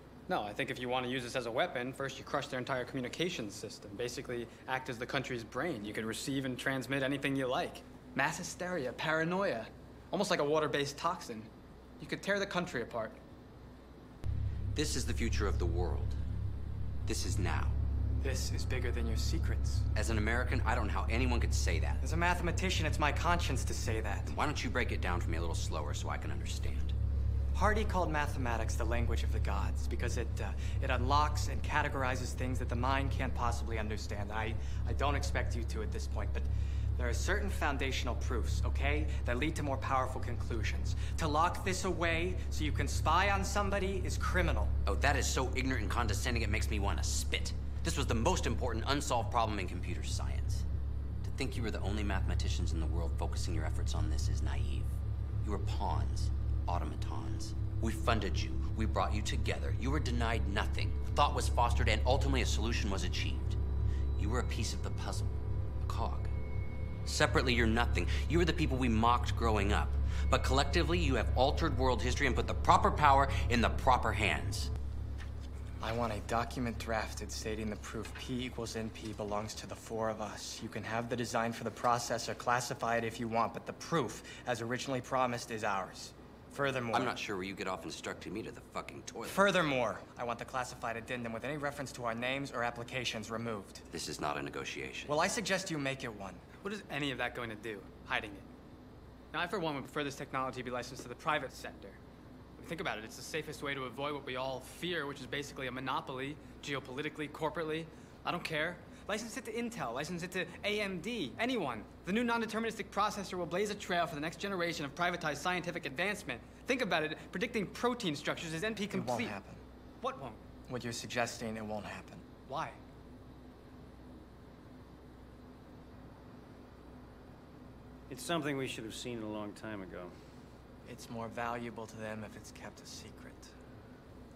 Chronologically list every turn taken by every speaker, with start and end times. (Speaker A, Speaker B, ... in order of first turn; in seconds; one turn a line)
Speaker A: 0.3-11.5
Speaker A: 12.0-13.2
Speaker B: 14.7-16.2
Speaker B: 17.1-17.8
Speaker C: 18.2-19.9
Speaker B: 19.9-22.0
Speaker C: 22.0-24.3
Speaker B: 24.3-26.9
Speaker C: 27.5-44.7
Speaker B: 44.9-50.6
Speaker B: 51.2-63.6
Speaker B: 64.2-66.3
Speaker B: 67.0-74.7
Speaker C: 75.8-87.2
Speaker B: 86.9-89.5
Speaker C: 89.2-93.8
Speaker B: 93.9-95.2
Speaker C: 95.1-96.4
Speaker A: 96.6-98.4
Speaker A: 99.3-102.0
Speaker A: 102.6-119.3
Speaker C: 118.9-119.6
Speaker A: 120.0-120.4
Speaker C: 120.7-122.2
Speaker A: 122.5-122.8
Speaker D: 128.1-130.1
Speaker C: 130.8-133.5